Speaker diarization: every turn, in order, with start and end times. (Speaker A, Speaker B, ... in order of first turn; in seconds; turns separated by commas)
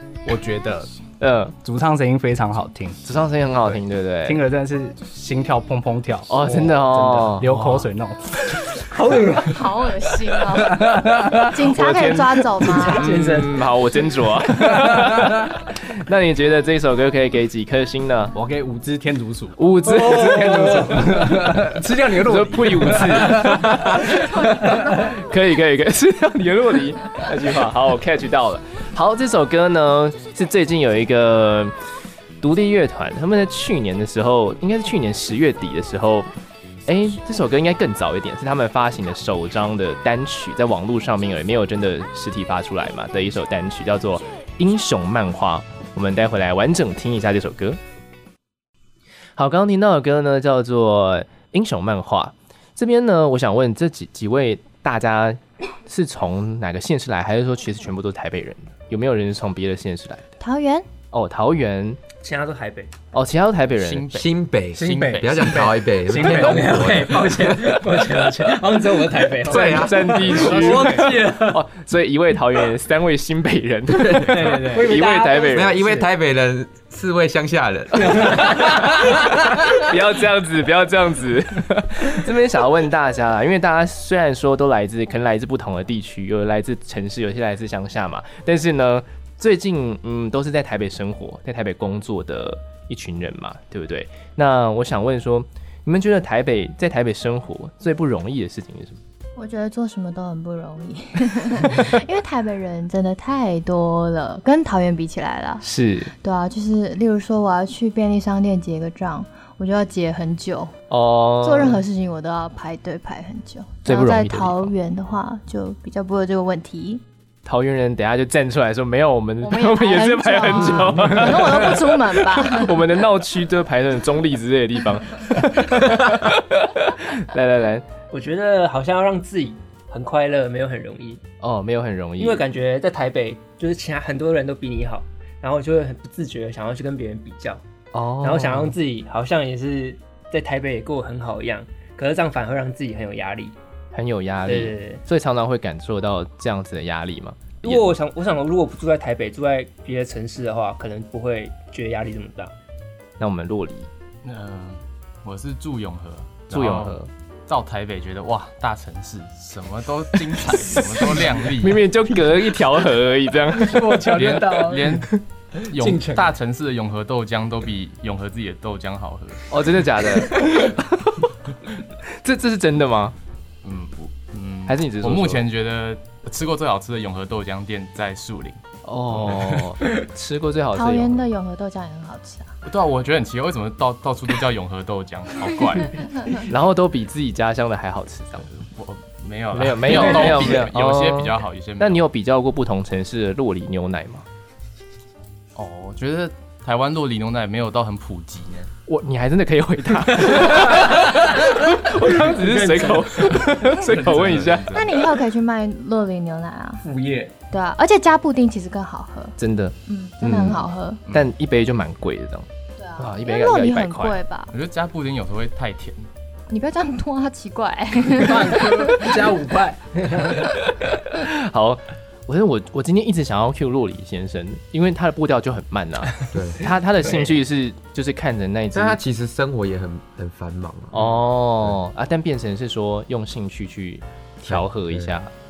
Speaker A: 0.2-0.9, Speaker B: 1.2-1.5, Speaker A: 1.6-3.0, Speaker B: 3.0-4.4, Speaker A: 4.3-9.3, Speaker B: 6.3-7.9, Speaker C: 8.8-9.7, Speaker D: 9.4-13.2, Speaker A: 10.4-11.7, Speaker B: 11.7-18.3, Speaker C: 12.6-13.8, Speaker A: 14.5-15.4, Speaker A: 18.3-24.8, Speaker B: 19.6-21.5, Speaker B: 22.2-31.7, Speaker B: 32.4-36.3, Speaker B: 36.9-47.8, Speaker B: 49.4-60.3, Speaker D: 60.4-60.9, Speaker B: 61.1-62.0, Speaker C: 62.2-62.9, Speaker B: 63.1-64.1, Speaker E: 63.8-65.7, Speaker F: 64.1-67.5, Speaker A: 64.7-67.5, Speaker C: 66.2-71.6, Speaker B: 69.5-75.8, Speaker F: 69.5-70.2, Speaker A: 69.6-71.3, Speaker C: 74.1-76.0, Speaker F: 75.5-78.6, Speaker C: 78.0-78.8, Speaker B: 78.1-99.0, Speaker D: 99.3-105.6, Speaker B: 105.6-106.1, Speaker D: 106.2-110.7, Speaker B: 110.9-111.8, Speaker D: 111.4-117.0, Speaker B: 113.8-114.7, Speaker B: 117.5-127.9, Speaker D: 119.4-122.8, Speaker C: 128.1-131.2, Speaker B: 131.4-132.4, Speaker C: 132.2-137.6, Speaker B: 137.9-138.8, Speaker C: 138.2-143.5, Speaker B: 143.9-147.9, Speaker C: 144.4-145.0, Speaker C: 147.6-152.5, Speaker B: 153.2-153.9, Speaker E: 154.2-161.9, Speaker B: 156.5-157.1, Speaker B: 161.6-164.2, Speaker A: 163.5-165.1, Speaker E: 164.1-169.5, Speaker A: 165.8-166.3, Speaker B: 169.5-171.3, Speaker B: 172.1-173.2, Speaker E: 173.6-178.6, Speaker B: 174.7-175.4, Speaker B: 178.8-181.2, Speaker E: 179.1-179.8, Speaker D: 180.7-182.5, Speaker E: 182.6-186.4, Speaker B: 186.4-188.5, Speaker E: 188.5-192.0, Speaker B: 189.5-194.2, Speaker E: 195.6-198.7, Speaker B: 198.9-204.7, Speaker C: 200.7-201.1, Speaker C: 201.9-203.6, Speaker E: 203.7-205.0, Speaker D: 204.7-206.8, Speaker C: 206.8-207.3, Speaker D: 207.5-209.3, Speaker B: 209.4-214.2, Speaker D: 209.8-211.0, Speaker D: 212.8-214.5, Speaker E: 214.5-216.1, Speaker D: 216.5-219.2, Speaker A: 218.2-220.3, Speaker C: 220.0-220.4, Speaker B: 220.4-229.0, Speaker F: 226.3-226.7, Speaker F: 228.7-231.0, Speaker B: 230.9-235.3, Speaker F: 234.4-235.1